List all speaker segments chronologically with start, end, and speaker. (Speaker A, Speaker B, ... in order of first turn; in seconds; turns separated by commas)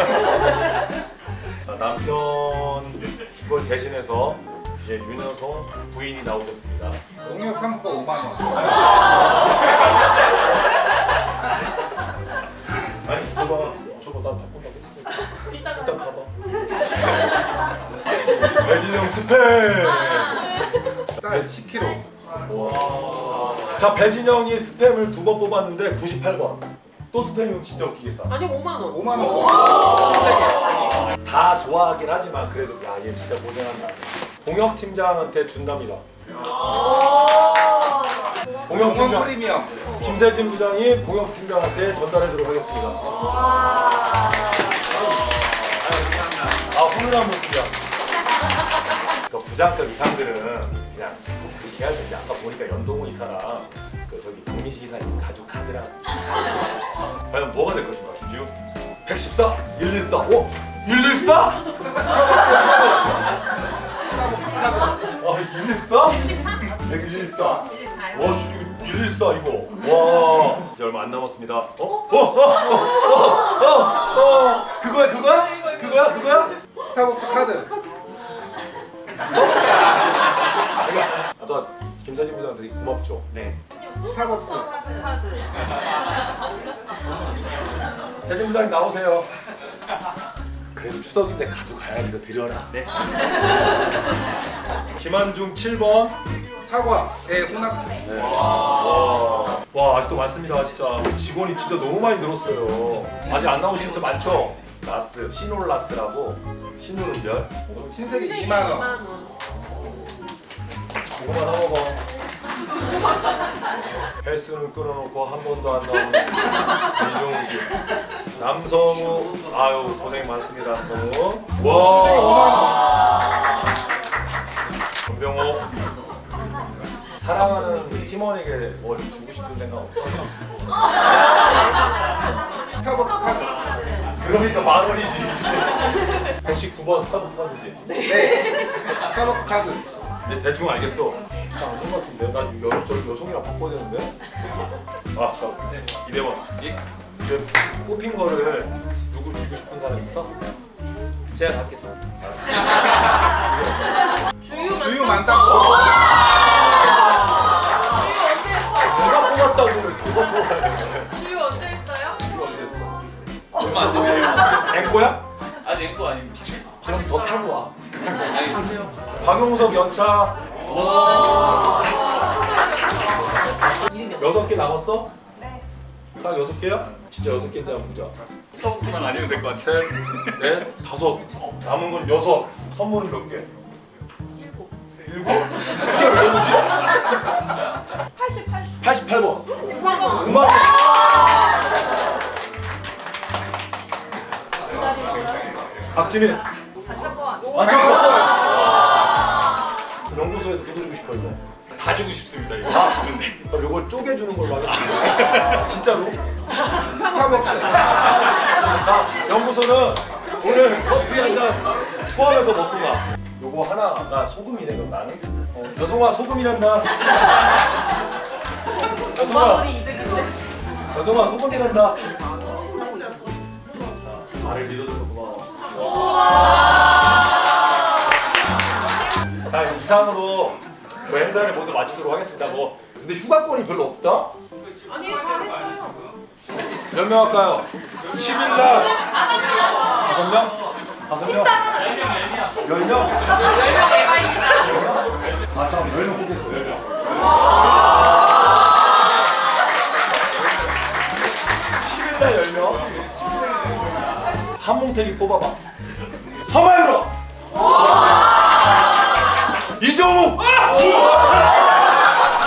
Speaker A: 1.6-7.0, Speaker B: 7.2-9.0, Speaker A: 13.0-16.3, Speaker A: 18.3-20.5, Speaker A: 21.2-21.5, Speaker B: 21.2-22.1, Speaker A: 22.4-28.5, Speaker C: 28.3-29.8, Speaker B: 28.9-30.8, Speaker A: 31.2-36.0, Speaker A: 38.7-43.1, Speaker B: 38.7-40.0, Speaker C: 43.5-44.1, Speaker A: 44.9-46.1, Speaker A: 46.6-47.8, Speaker A: 49.3-55.9, Speaker A: 57.3-58.5, Speaker A: 59.0-63.2, Speaker B: 64.1-65.2, Speaker A: 65.2-76.7, Speaker C: 67.5-68.1, Speaker B: 76.8-77.7, Speaker A: 79.2-80.0, Speaker A: 80.7-83.5, Speaker C: 83.7-85.6, Speaker B: 84.0-84.8, Speaker A: 88.2-89.3, Speaker A: 90.7-92.9, Speaker A: 95.0-96.2, Speaker B: 96.6-98.0, Speaker A: 98.0-107.8, Speaker B: 107.7-109.0, Speaker C: 108.0-109.4, Speaker A: 111.2-112.0, Speaker A: 114.2-117.8, Speaker A: 118.3-122.6, Speaker B: 121.6-122.8, Speaker A: 125.1-125.7, Speaker A: 127.2-130.8, Speaker B: 132.8-134.0, Speaker A: 134.1-138.0, Speaker B: 138.0-139.9, Speaker A: 140.2-144.2, Speaker A: 145.1-150.3, Speaker D: 151.3-152.0, Speaker A: 152.2-154.0, Speaker C: 154.4-155.9, Speaker B: 154.6-155.9, Speaker C: 157.9-159.2, Speaker A: 158.8-161.2, Speaker C: 161.1-162.2, Speaker A: 162.3-163.0, Speaker A: 163.6-165.3, Speaker D: 165.7-166.8, Speaker A: 166.8-167.7, Speaker D: 168.3-168.9, Speaker A: 169.2-171.3, Speaker A: 173.9-175.1, Speaker C: 175.4-175.6, Speaker A: 176.2-178.2, Speaker D: 178.6-179.5, Speaker A: 179.5-183.5, Speaker C: 184.3-184.7, Speaker A: 185.0-187.0, Speaker C: 188.2-188.7, Speaker A: 188.8-190.7, Speaker C: 189.6-190.6, Speaker B: 189.9-190.2, Speaker C: 194.7-195.4, Speaker A: 195.9-196.4, Speaker C: 196.9-198.2, Speaker A: 197.5-198.9, Speaker B: 197.6-198.4, Speaker A: 200.1-206.2, Speaker B: 207.0-207.9, Speaker A: 208.4-217.1, Speaker A: 219.1-219.9, Speaker C: 219.2-220.3, Speaker A: 220.9-222.1, Speaker C: 222.2-223.3, Speaker A: 224.0-226.1, Speaker A: 229.5-234.3, Speaker C: 234.9-236.2, Speaker A: 236.9-239.0, Speaker A: 240.0-241.6, Speaker A: 242.6-243.4, Speaker C: 243.4-244.6, Speaker A: 244.4-247.0, Speaker A: 251.8-253.0, Speaker A: 254.6-255.6, Speaker A: 256.4-257.1, Speaker A: 259.8-261.4